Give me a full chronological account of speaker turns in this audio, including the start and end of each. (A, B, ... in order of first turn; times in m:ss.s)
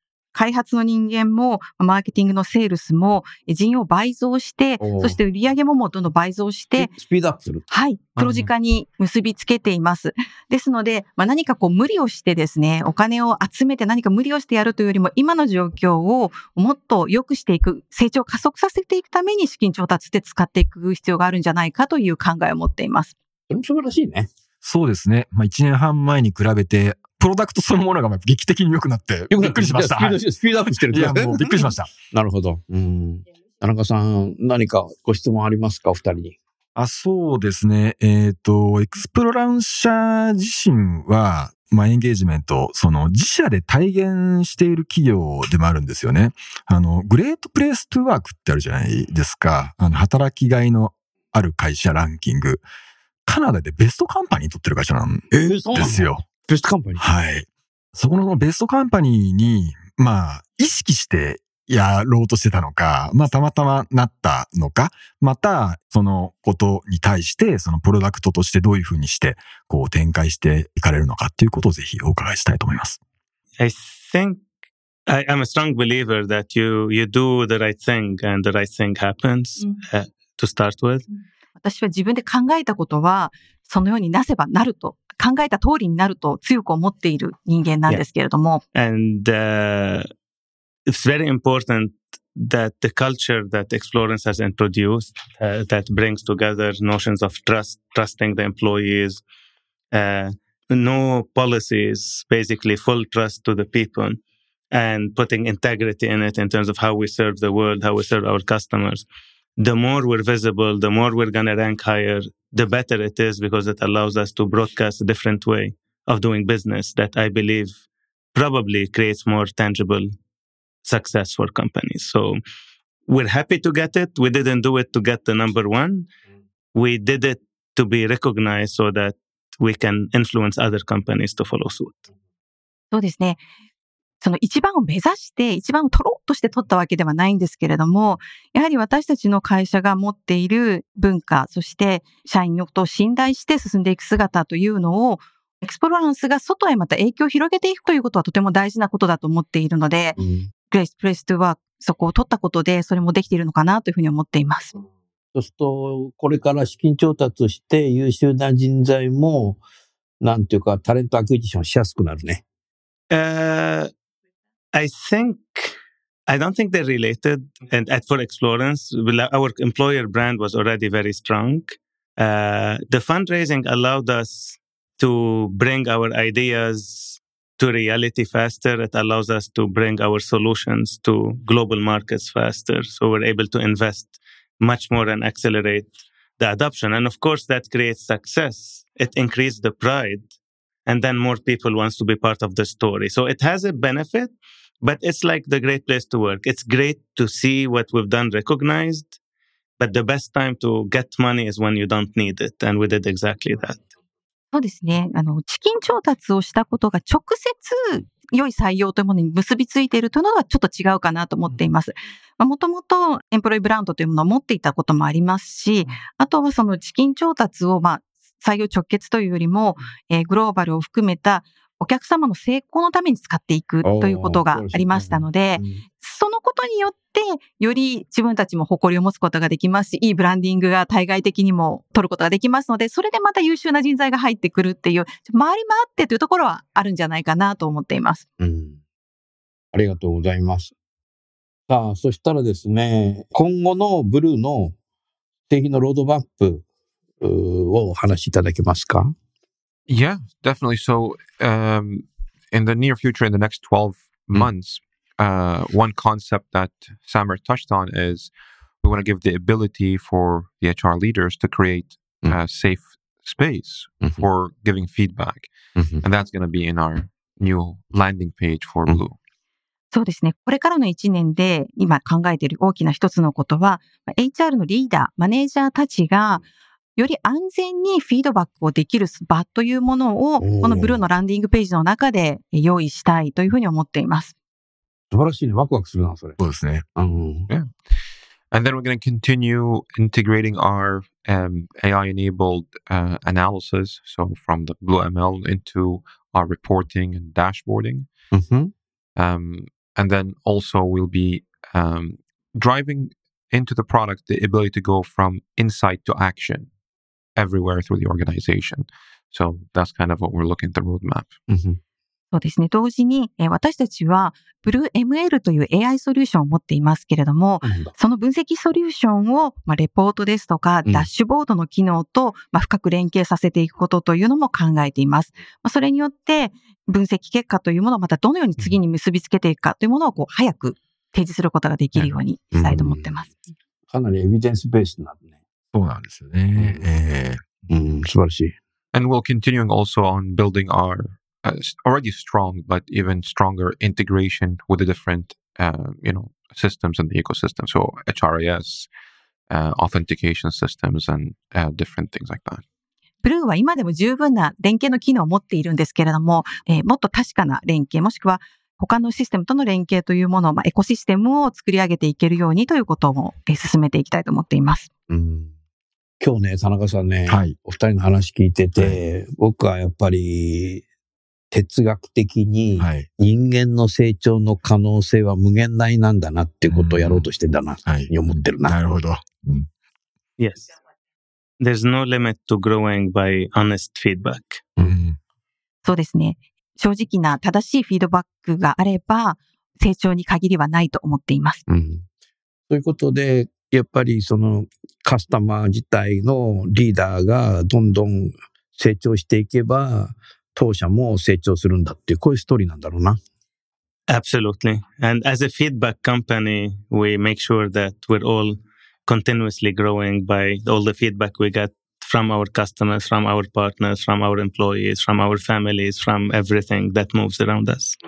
0:00.3-0:06.9 A
0:04.8-0:05.2 B
0:06.8-0:07.6 B
0:07.7-0:23.1 A
0:23.5-0:24.3 B
0:24.6-0:30.2 C
0:29.3-0:36.4 B
0:30.9-0:31.9 C
0:36.7-0:52.6 C
0:53.2-0:56.2 C
0:55.3-0:57.0 B
0:57.0-1:13.0 C
1:13.6-1:14.4 D
1:15.1-1:21.1 D
1:21.6-1:28.6 A
1:28.7-1:30.1 D
1:30.9-1:39.2 D
1:39.9-1:44.2 D
1:44.7-1:49.0 D
1:49.6-1:57.8 D
1:58.3-2:00.1 D
2:00.8-2:02.4 D
2:03.1-2:06.0 D
2:06.7-2:12.1 D
2:12.9-2:13.4 A
2:14.2-2:30.2 A
2:30.2-2:30.5 B
2:30.7-2:34.7 A
2:35.3-2:39.6 B
2:40.2-2:42.4 B
2:43.1-2:43.9 D
2:44.7-2:45.7 D
2:46.3-3:10.3 D
3:10.9-3:19.1 D
3:19.8-3:23.9 D
3:24.5-3:58.2 A
3:43.8-3:45.8 B
3:58.4-3:58.8 B
3:59.7-4:00.7 B
4:01.7-4:04.8 B
4:05.5-4:06.6 B
4:07.2-4:09.1 B
4:09.9-4:25.5 E
4:25.8-4:26.0 B
4:26.0-4:29.2 E
4:29.9-4:36.4 A
4:37.0-4:44.3 A
4:40.4-4:41.0 B
4:45.1-4:46.4 B
4:46.4-4:46.8 C
4:47.0-4:47.5 B
4:48.5-4:58.1 E
4:58.3-4:58.7 B
4:59.2-5:06.7 E
5:07.4-5:11.3 E
5:11.5-5:11.8 B
5:12.3-5:33.3 A
5:17.6-5:17.9 B
5:32.5-5:33.1 B
5:33.9-5:35.2 B
5:35.7-5:37.6 C
5:36.6-5:36.8 B
5:37.7-5:38.6 B
5:38.9-5:48.9 E
5:49.5-5:52.6 E
5:53.2-6:04.9 A
6:05.1-6:05.5 B
6:06.2-6:10.8 B
6:07.3-6:07.6 C
6:11.5-6:19.0 B
6:12.8-6:13.1 C
6:16.7-6:17.3 C
6:17.8-6:19.7 C
6:20.4-6:20.7 D
6:21.6-6:24.6 D
6:24.8-6:25.2 C
6:25.8-6:31.6 A
6:31.7-6:32.0 B
6:32.7-6:43.2 B
6:44.1-6:58.0 D